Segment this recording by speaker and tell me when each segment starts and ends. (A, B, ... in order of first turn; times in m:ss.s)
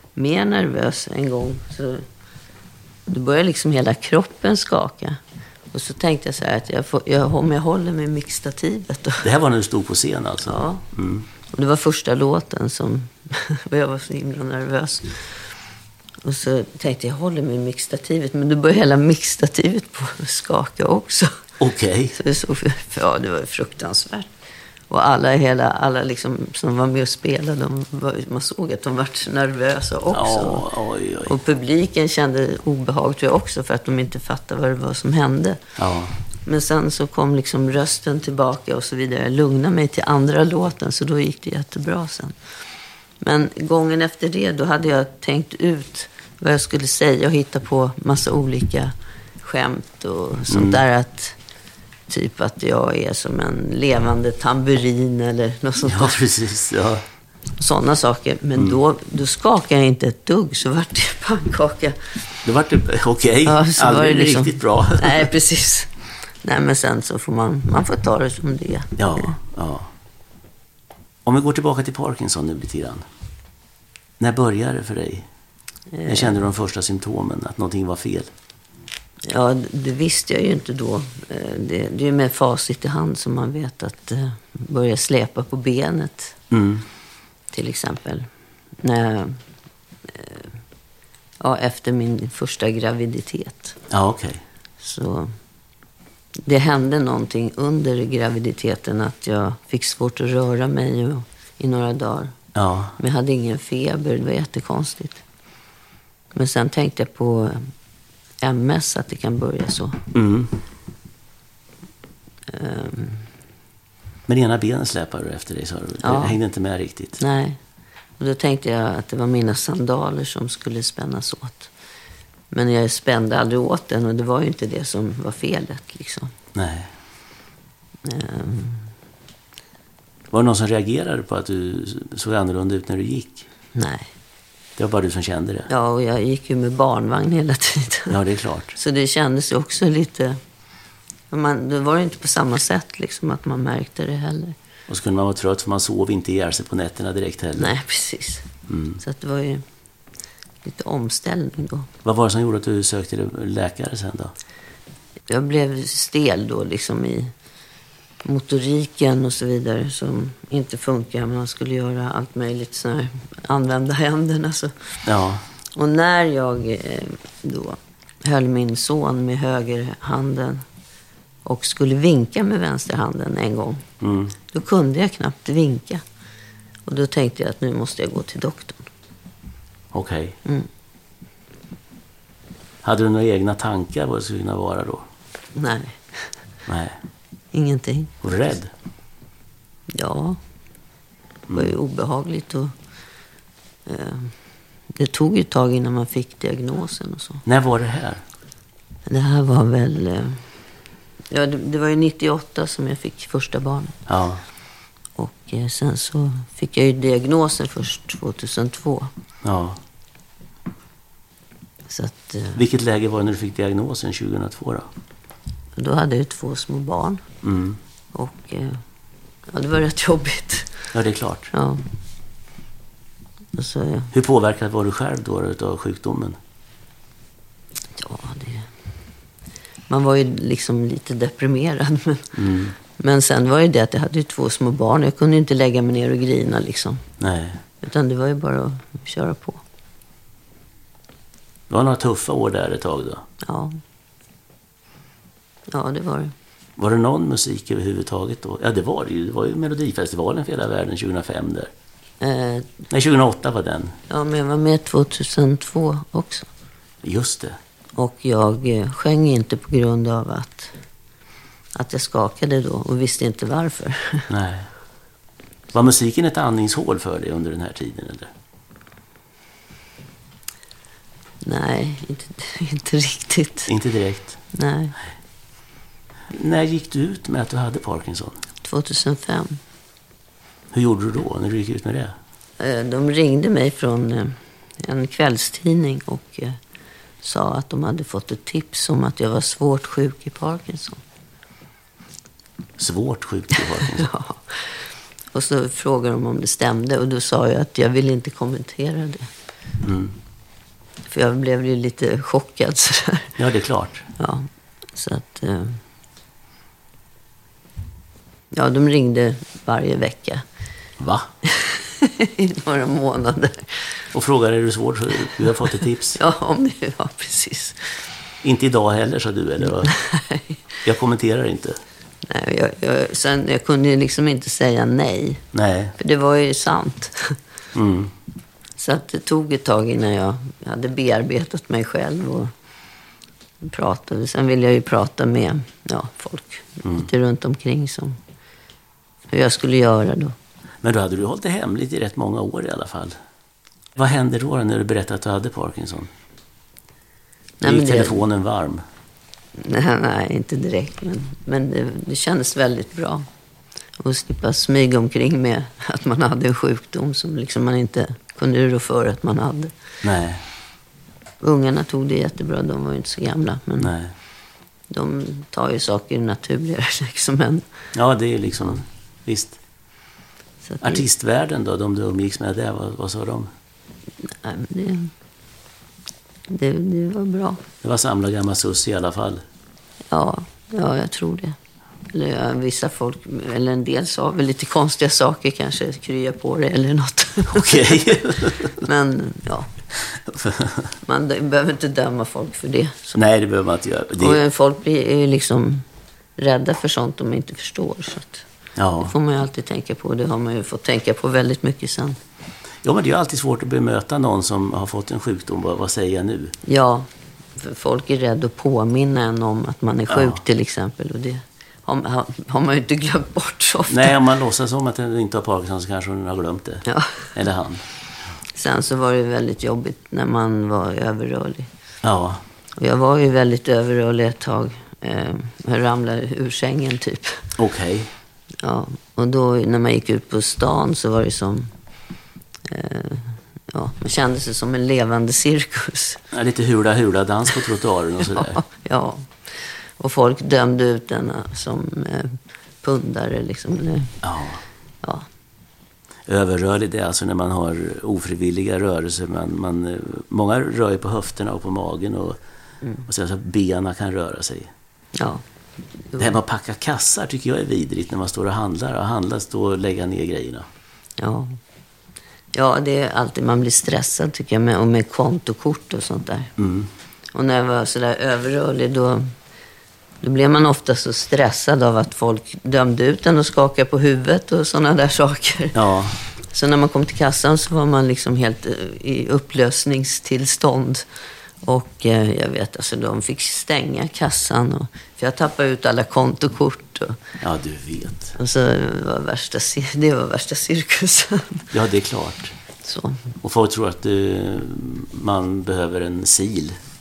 0:00.2-0:02.0 A
0:03.1-0:05.2 A
0:05.7-0:09.3 A
0:09.2-0:11.3 B
0:10.4-0:10.8 A
0:11.5-0:15.2 A
0:16.2-0:21.4 A
0:21.6-0:22.2 B
0:22.1-0:24.3 A
0:24.9-0:30.7 A
0:30.1-0:31.4 B
0:31.2-0:35.6 A
0:35.8-0:36.2 B
0:36.4-0:42.4 A
0:43.2-0:51.4 A
0:50.5-0:50.8 B
0:52.1-0:56.2 A
0:55.8-0:57.0 B
0:57.6-1:02.0 A
1:02.4-1:05.3 B
1:03.4-1:05.9 A
1:06.4-1:09.4 A
1:09.0-1:09.9 B
1:11.2-1:13.1 B
1:14.2-1:15.3 B
1:15.9-1:16.4 A
1:16.1-1:18.3 B
1:19.3-1:26.4 A
1:26.5-1:26.8 B
1:27.5-1:28.3 A
1:28.8-1:29.4 A
1:30.1-1:30.5 A
1:31.4-1:33.8 A
1:33.9-1:34.4 B
1:34.8-1:35.3 A
1:36.4-1:42.4 A
1:42.6-1:43.0 B
1:43.0-1:45.2 A
1:46.3-1:47.7 A
1:48.4-1:50.0 A
1:50.1-1:50.5 B
1:52.5-1:53.2 A
1:54.3-1:57.2 B
1:56.0-1:56.4 A
1:57.2-1:57.6 A
1:58.2-2:01.7 A
2:02.5-2:06.3 A
2:06.6-2:06.9 B
2:08.0-2:08.9 A
2:10.3-2:13.5 B
2:13.8-2:14.1 A
2:14.8-2:15.7 B
2:15.7-2:18.2 A
2:18.1-2:18.8 B
2:18.8-2:20.4 A
2:21.3-2:24.6 A
2:24.9-2:27.7 B
2:27.6-2:28.5 A
2:28.7-2:29.0 B
2:29.0-2:29.6 A
2:30.6-2:31.9 A
2:32.0-2:34.3 B
2:35.3-2:37.3 A
2:38.2-2:44.7 A
2:45.1-2:45.4 B
2:45.8-2:50.6 A
2:51.4-2:53.8 A
2:54.0-2:54.4 B
2:54.5-2:56.0 A
2:56.9-2:58.9 A
2:59.9-3:00.4 B
3:02.8-3:05.1 B
3:05.6-3:06.3 A
3:06.7-3:07.0 B
3:07.5-3:08.1 A
3:08.2-3:08.7 B
3:09.9-3:10.4 A
3:11.5-3:11.7 B
3:11.5-3:12.7 A
3:13.9-3:14.3 A
3:14.9-3:17.4 A
3:17.5-3:18.2 B
3:19.1-3:20.4 A
3:21.3-3:24.0 A
3:24.1-3:24.4 B
3:25.2-3:29.1 A
3:29.4-3:29.8 B
3:31.9-3:32.6 A
3:32.6-3:34.9 B
3:35.8-3:37.2 A
3:37.4-3:37.8 B
3:38.1-3:38.8 A
3:39.5-3:40.8 A
3:40.9-3:41.5 B
3:41.5-3:41.8 A
3:43.6-3:44.1 A
3:44.1-3:46.4 B
3:48.0-3:48.7 A
3:49.9-3:52.3 A
3:52.4-3:52.8 B
3:53.0-3:57.0 A
3:57.2-3:57.6 B
3:57.8-3:59.6 A
4:01.7-4:03.2 B
4:03.4-4:03.8 A
4:05.7-4:06.3 A
4:06.8-4:11.7 B
4:12.2-4:12.8 A
4:12.9-4:14.0 B
4:14.1-4:16.5 A
4:17.0-4:17.6 B
4:18.0-4:20.7 A
4:21.8-4:24.3 A
4:24.3-4:24.7 B
4:25.7-4:28.3 B
4:31.4-4:33.7 A
4:33.7-4:34.4 B
4:34.5-4:35.0 A
4:36.3-4:38.4 B
4:38.6-4:39.6 A
4:40.7-4:42.2 B
4:42.6-4:46.6 A
4:47.2-4:51.0 A
4:52.8-4:54.1 B
4:53.8-4:54.6 A
4:55.3-4:59.3 A
4:59.8-5:00.1 B
5:01.1-5:03.4 A
5:03.4-5:04.1 B
5:04.2-5:05.8 A
5:08.5-5:10.4 A
5:11.0-5:11.3 B
5:11.5-5:13.9 A
5:14.1-5:16.2 B
5:16.2-5:17.9 A
5:18.4-5:19.9 B
5:19.9-5:20.6 A
5:20.8-5:21.8 B
5:22.3-5:25.4 A
5:25.5-5:26.0 B
5:26.0-5:27.4 A
5:27.7-5:28.1 B
5:28.8-5:32.5 A
5:33.6-5:38.2 A
5:39.3-5:40.4 A
5:40.8-5:43.2 B
5:44.0-5:46.1 B
5:47.6-5:48.2 A
5:47.6-5:48.8 B
5:49.6-5:53.3 A
5:54.0-5:59.7 A
6:00.0-6:00.4 B
6:01.4-6:03.9 A
6:03.8-6:04.1 B
6:04.9-6:07.7 A
6:07.9-6:09.6 B
6:10.6-6:11.0 A
6:10.8-6:13.5 B
6:14.3-6:15.1 A
6:16.5-6:17.6 A
6:17.8-6:19.4 B
6:20.1-6:21.6 A
6:22.1-6:29.7 A
6:27.5-6:28.8 B
6:30.1-6:30.9 B
6:31.0-6:33.2 A
6:33.2-6:34.4 B
6:34.2-6:35.8 A
6:36.4-6:38.4 A
6:38.8-6:39.2 B
6:39.0-6:42.2 A
6:42.8-6:46.6 B
6:46.6-6:54.2 A
6:50.1-6:50.4 B
6:53.9-6:57.8 B
6:56.9-6:57.2 A
6:58.6-7:01.7 A
7:02.0-7:02.4 B
7:02.8-7:07.4 A
7:07.6-7:08.1 B
7:08.6-7:11.7 A
7:12.7-7:16.2 A
7:16.3-7:18.6 B
7:18.2-7:19.3 A
7:20.0-7:24.2 A
7:24.2-7:24.6 B
7:26.3-7:32.4 B
7:33.1-7:34.7 B
7:35.2-7:35.4 A
7:36.2-7:40.7 B
7:41.2-7:41.6 A
7:42.5-7:46.5 A
7:46.6-7:46.9 B
7:47.3-7:49.3 A
7:50.2-7:55.8 A
7:55.8-7:56.2 B
7:56.5-8:01.0 A
8:01.6-8:07.2 A
8:07.4-8:08.4 B
8:08.4-8:11.7 A
8:11.7-8:12.5 B
8:12.8-8:13.3 A
8:13.4-8:16.8 B